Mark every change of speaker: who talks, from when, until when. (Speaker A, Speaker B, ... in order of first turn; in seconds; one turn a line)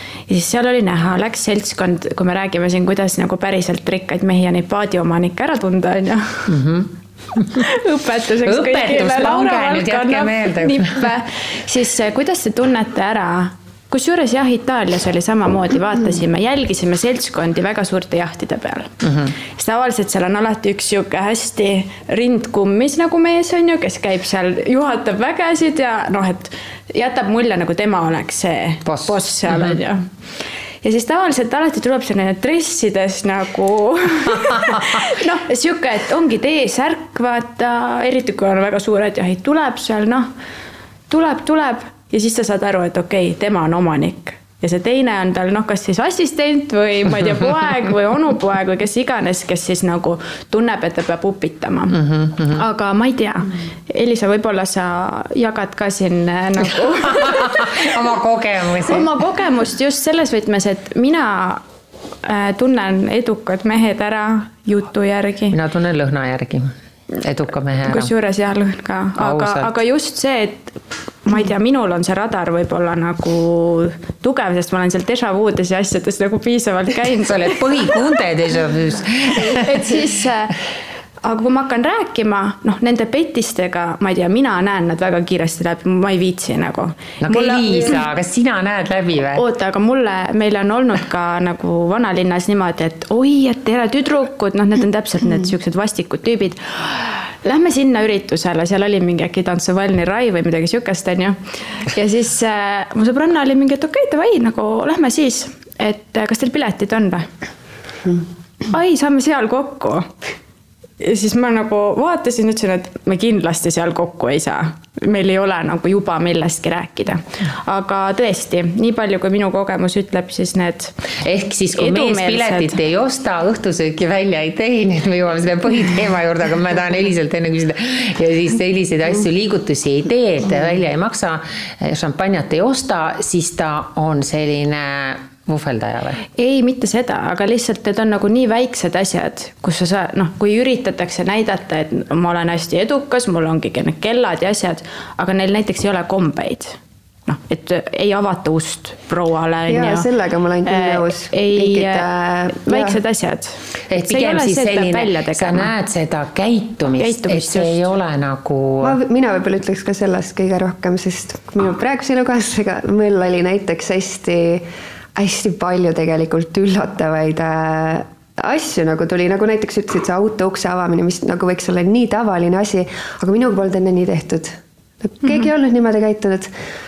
Speaker A: 0.3-6.5
Speaker B: 6.5-7.7
Speaker A: 7.5-18.9
Speaker B: 8.4-11.1
Speaker B: 19.0-19.4
Speaker A: 19.4-30.1
Speaker B: 28.9-29.8
Speaker A: 30.8-40.3
Speaker B: 34.6-34.8
Speaker A: 41.1-57.8
Speaker B: 51.9-52.6
Speaker B: 57.1-59.1
Speaker A: 58.8-61.6
Speaker A: 62.2-65.6
Speaker B: 65.5-68.1
Speaker A: 67.9-77.6
Speaker B: 69.2-69.8
Speaker B: 77.2-80.0
Speaker A: 79.4-80.6
Speaker A: 81.2-87.9
Speaker B: 87.2-89.4
Speaker A: 89.3-107.3
Speaker A: 108.7-110.1
Speaker A: 111.0-121.0
Speaker B: 121.2-136.2
Speaker A: 121.7-122.8
Speaker A: 136.4-150.1
Speaker C: 149.7-153.0
Speaker A: 150.6-155.7
Speaker B: 153.9-159.0
Speaker A: 157.0-157.9
Speaker C: 158.8-176.5